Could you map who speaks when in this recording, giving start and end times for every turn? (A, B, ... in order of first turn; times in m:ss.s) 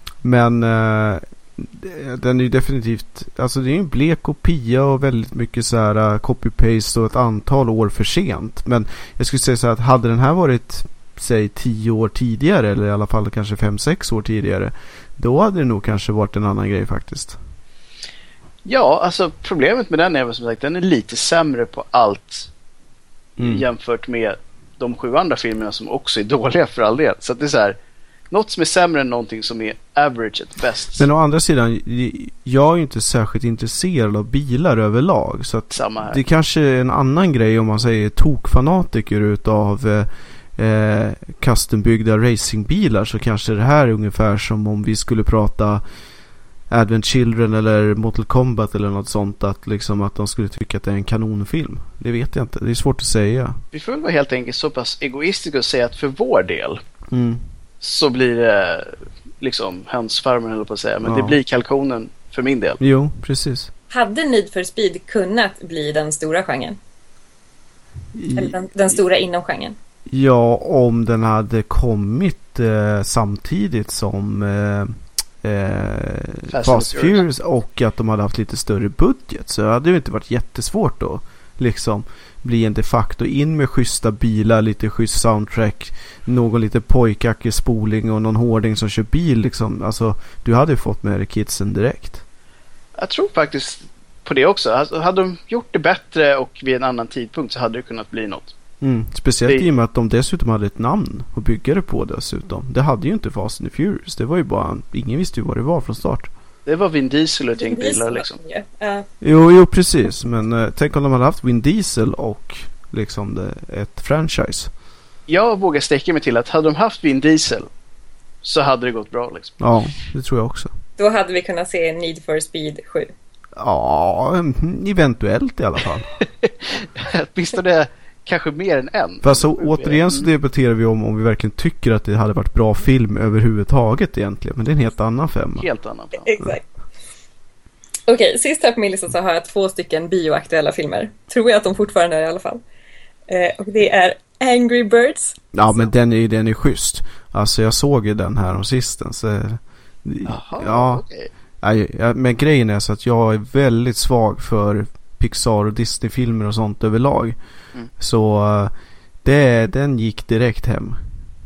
0:00.2-0:17.4 A
0:18.6-0:22.5 B
0:23.4-0:23.6 A
0:23.4-0:27.8 B
0:28.3-0:31.1 B
0:31.0-0:45.8 A
0:35.7-0:36.2 B
0:46.7-0:53.6 A
0:53.7-0:56.8 B
0:57.1-0:57.5 A
0:57.8-1:02.8 B
1:01.0-1:01.4 A
1:02.8-1:03.7 A
1:03.9-1:06.8 C
1:08.1-1:08.5 A
1:08.3-1:09.8 C
1:10.1-1:32.2 A
1:16.5-1:17.2 B
1:33.0-1:38.5 B
1:38.8-1:46.3 A
1:46.6-1:48.4 B
1:47.6-1:49.1 C
1:49.2-1:54.7 A
1:55.3-1:57.7 B
1:58.4-1:59.6 B
1:59.6-2:00.7 A
2:01.0-2:03.1 C
2:03.6-2:06.1 A
2:06.4-2:10.3 B
2:09.2-2:15.7 A
2:15.6-2:16.3 B
2:16.2-2:16.6 C
2:18.1-2:22.6 C
2:23.3-2:25.4 C
2:25.5-2:31.0 A
2:30.2-2:31.3 B
2:31.6-2:37.4 A
2:38.0-2:38.7 A
2:39.2-2:41.1 A